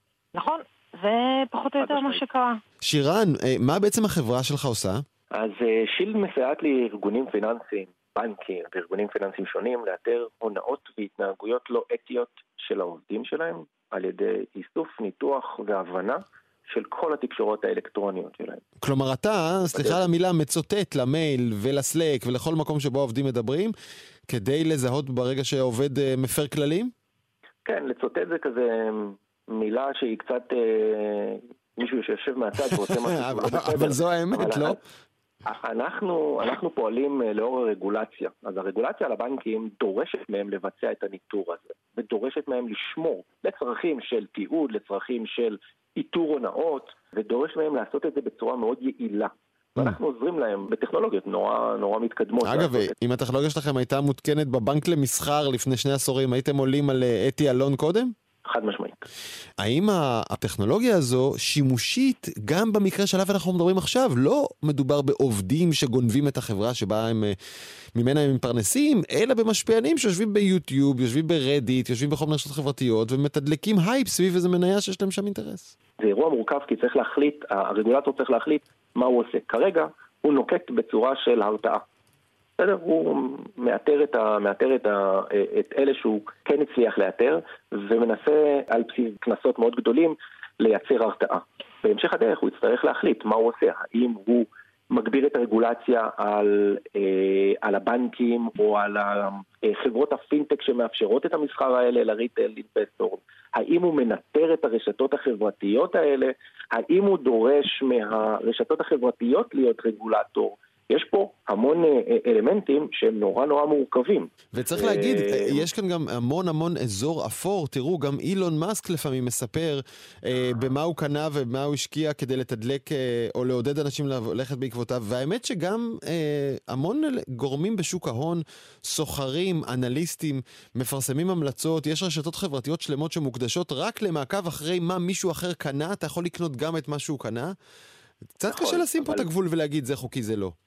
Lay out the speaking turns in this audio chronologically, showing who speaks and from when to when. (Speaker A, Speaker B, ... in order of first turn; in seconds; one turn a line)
Speaker A: 0.3-2.6
Speaker B: 1.8-2.2
Speaker C: 2.8-5.0
Speaker B: 5.3-18.6
Speaker C: 18.8-23.7
Speaker C: 24.3-26.9
Speaker B: 27.6-34.8
Speaker C: 32.6-34.8
Speaker B: 35.5-52.9
Speaker C: 52.4-58.1
Speaker B: 58.5-59.0
Speaker C: 59.6-67.4
Speaker C: 68.0-75.8
Speaker B: 76.0-81.8
Speaker B: 82.6-115.7
Speaker C: 114.5-137.5
Speaker C: 138.4-140.5
Speaker B: 138.5-139.2